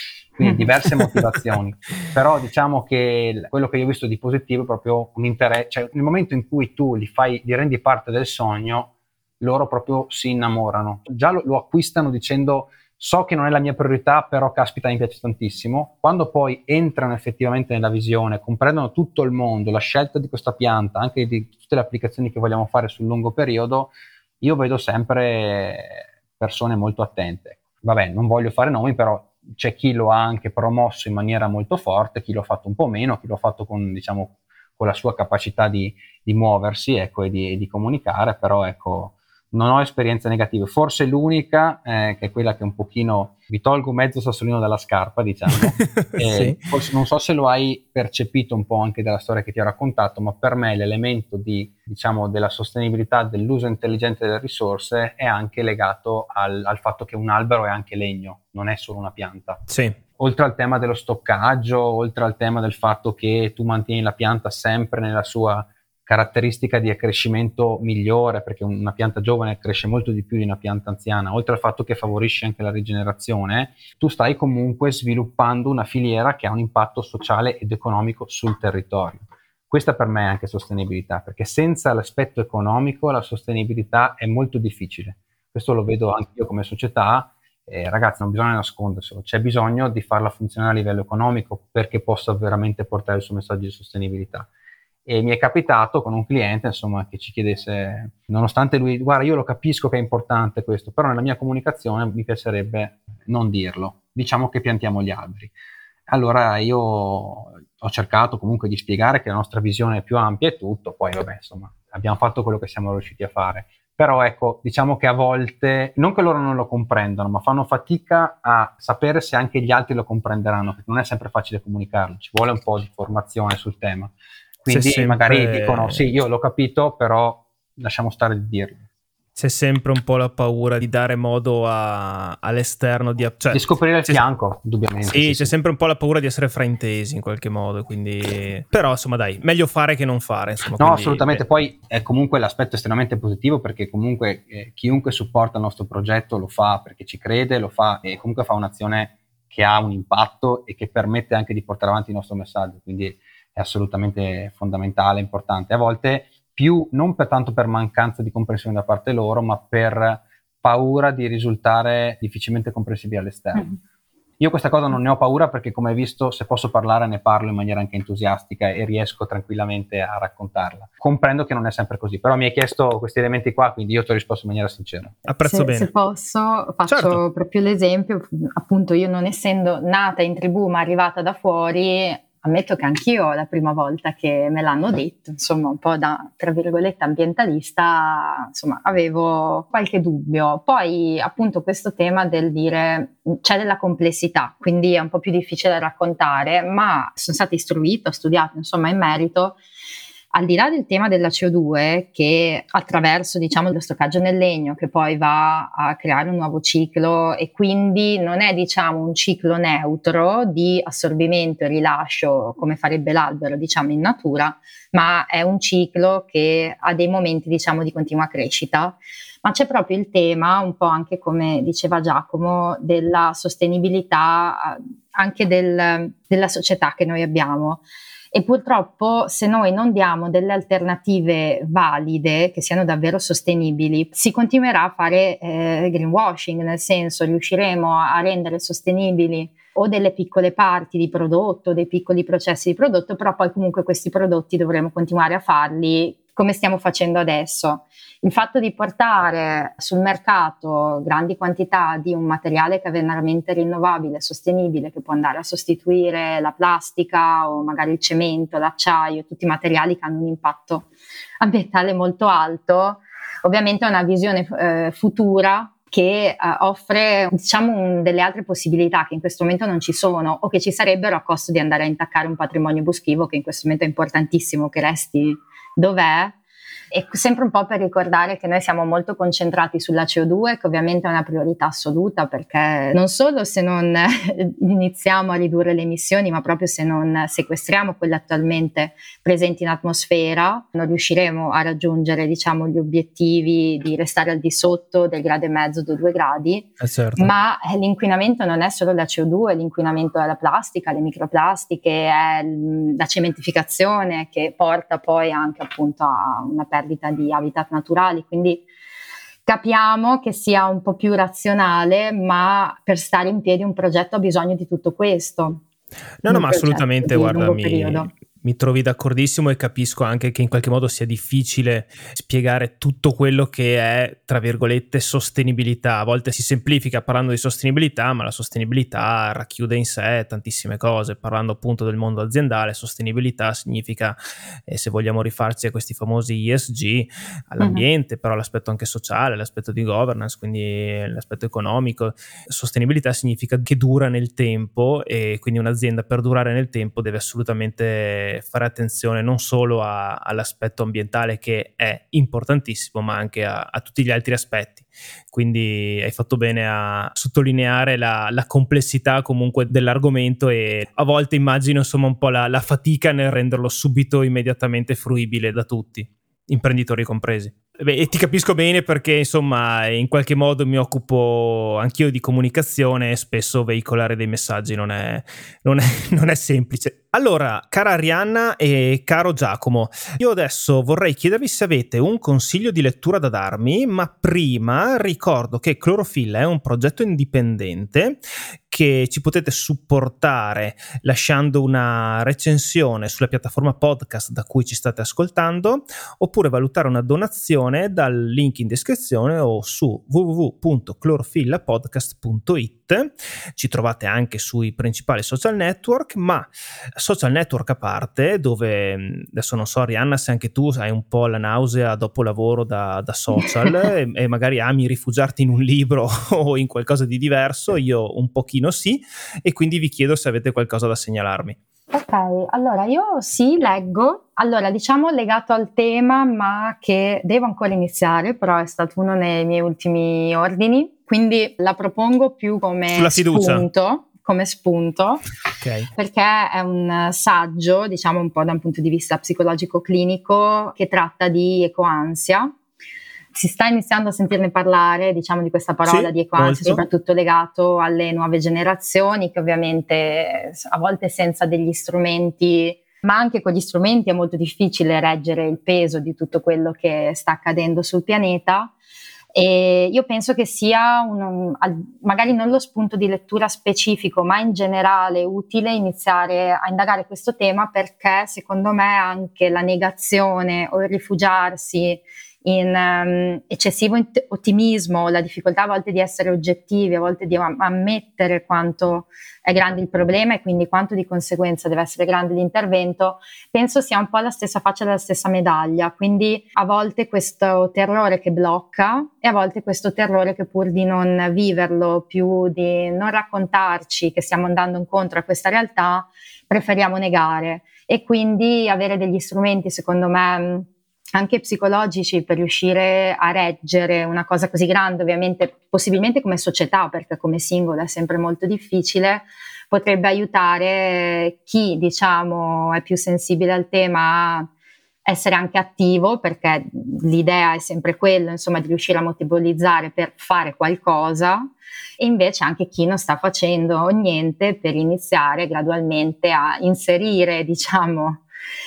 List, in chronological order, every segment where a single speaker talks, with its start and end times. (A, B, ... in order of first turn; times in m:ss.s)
0:00.3-0:59.6 A
0:45.6-0:46.6 B
0:59.7-1:00.0 B
1:00.2-1:34.5 A
1:35.0-1:45.5 A
1:46.1-2:04.1 A
2:04.6-2:08.9 A
2:04.7-2:06.0 B
2:09.4-2:14.2 B
2:13.5-2:15.5 A
2:15.0-2:21.4 B
2:20.8-2:43.7 A
2:44.4-2:55.2 A
2:55.2-2:55.9 B
2:55.4-3:19.6 C
2:56.9-2:57.2 B
3:20.3-4:20.9 C
4:21.4-4:36.3 C
4:36.9-5:08.6 C
4:56.8-4:57.3 B
5:09.4-5:15.6 C
5:16.2-7:01.6 B
5:16.3-5:18.1 C
5:37.6-5:37.8 C
6:53.4-6:53.8 C
7:01.9-7:15.2 C
7:12.9-7:13.7 B
7:15.6-7:15.9 B
7:16.0-7:22.5 C
7:23.3-7:38.7 C
7:25.8-7:26.8 B
7:39.3-8:34.5 C
8:35.0-8:41.5 C
8:42.0-8:48.2 C